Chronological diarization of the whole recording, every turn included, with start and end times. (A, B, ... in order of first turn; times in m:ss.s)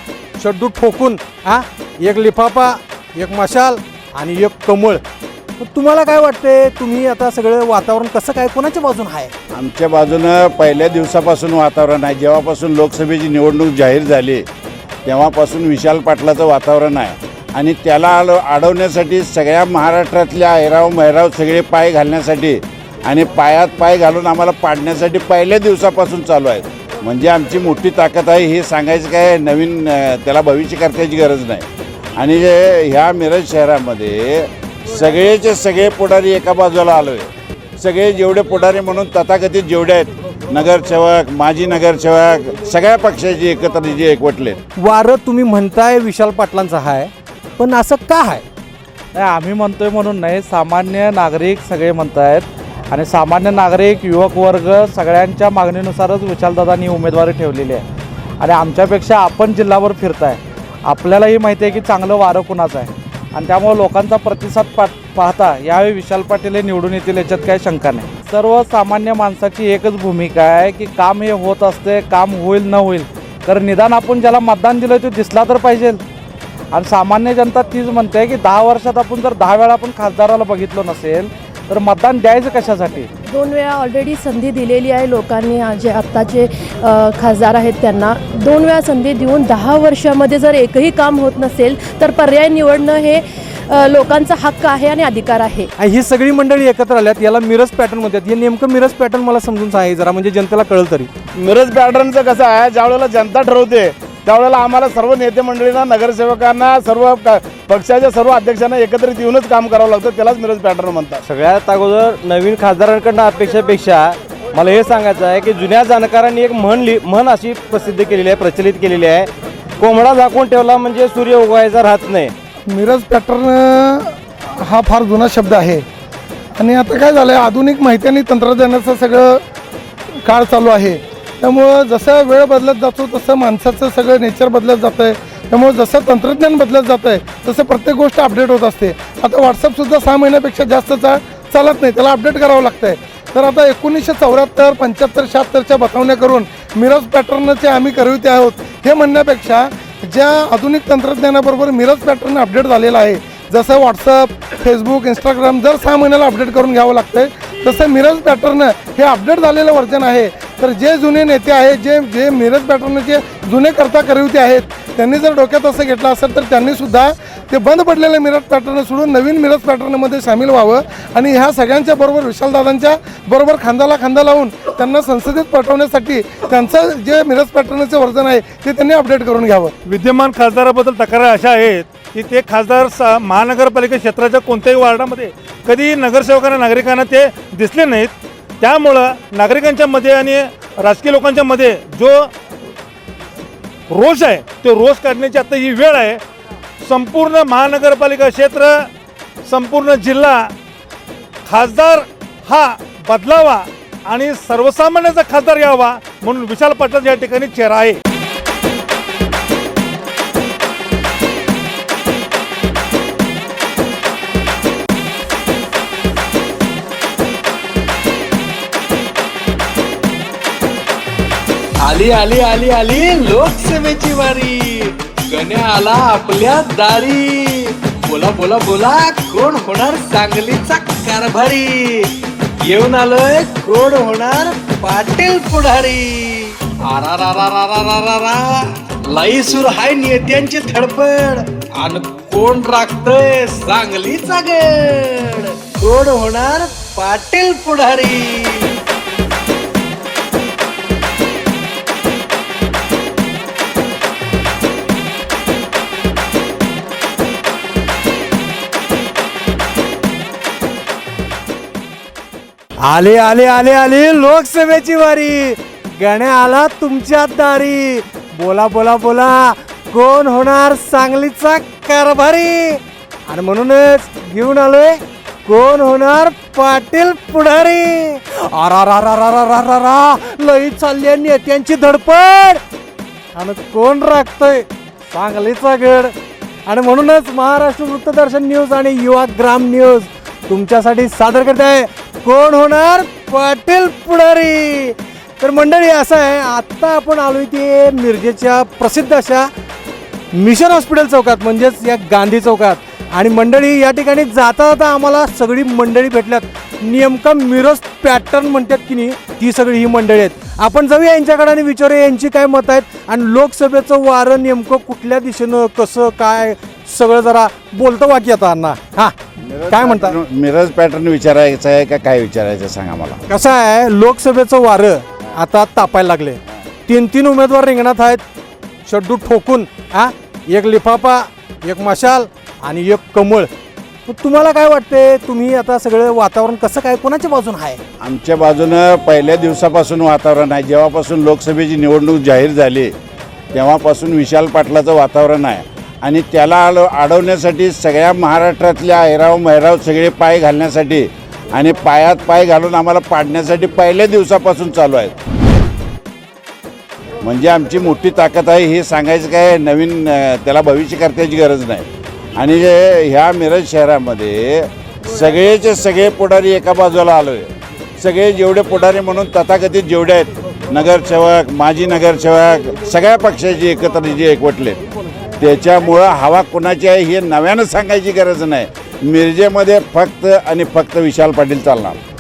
0:00.4-0:05.0 A
0:05.6-0:09.3 A
0:09.5-0:14.4 B
0:15.1-0:44.6 B
0:44.8-0:48.4 A
0:49.1-0:57.8 C
0:58.4-1:16.0 C
1:16.7-1:23.1 C
1:23.3-1:35.7 D
1:35.8-1:41.1 A
1:41.4-1:51.2 E
1:51.2-1:59.3 F
1:59.8-2:02.3 F
2:02.7-2:05.8 G
2:06.6-2:09.4 G
2:10.2-2:59.7 G
2:59.9-3:12.3 H
3:13.9-3:16.2 H
3:16.8-3:18.9 H
3:19.5-3:20.5 H
3:21.5-3:28.0 H
3:41.9-3:44.5 I
3:43.6-3:44.3 A
3:45.3-3:47.5 I
3:46.2-3:47.1 A
3:48.1-3:50.2 I
3:49.3-3:51.7 A
3:52.8-3:56.0 A
3:52.8-3:53.6 I
3:57.0-3:57.6 I
3:57.5-3:58.3 A
3:59.2-4:00.1 I
3:59.4-4:01.4 A
4:01.9-4:02.6 I
4:02.3-4:04.5 A
4:03.7-4:04.3 I
4:05.9-4:08.0 A
4:06.7-4:07.4 I
4:22.8-4:42.6 A
4:43.4-4:46.2 A
4:46.7-4:59.5 A
5:00.3-5:19.2 A
5:19.4-5:23.2 B
5:19.7-5:20.2 A
5:23.3-5:28.2 A
5:28.9-5:33.5 A
5:34.1-5:37.8 A
5:38.0-5:42.9 B
5:43.5-5:55.2 B
5:57.2-6:14.8 B
6:15.4-6:22.0 B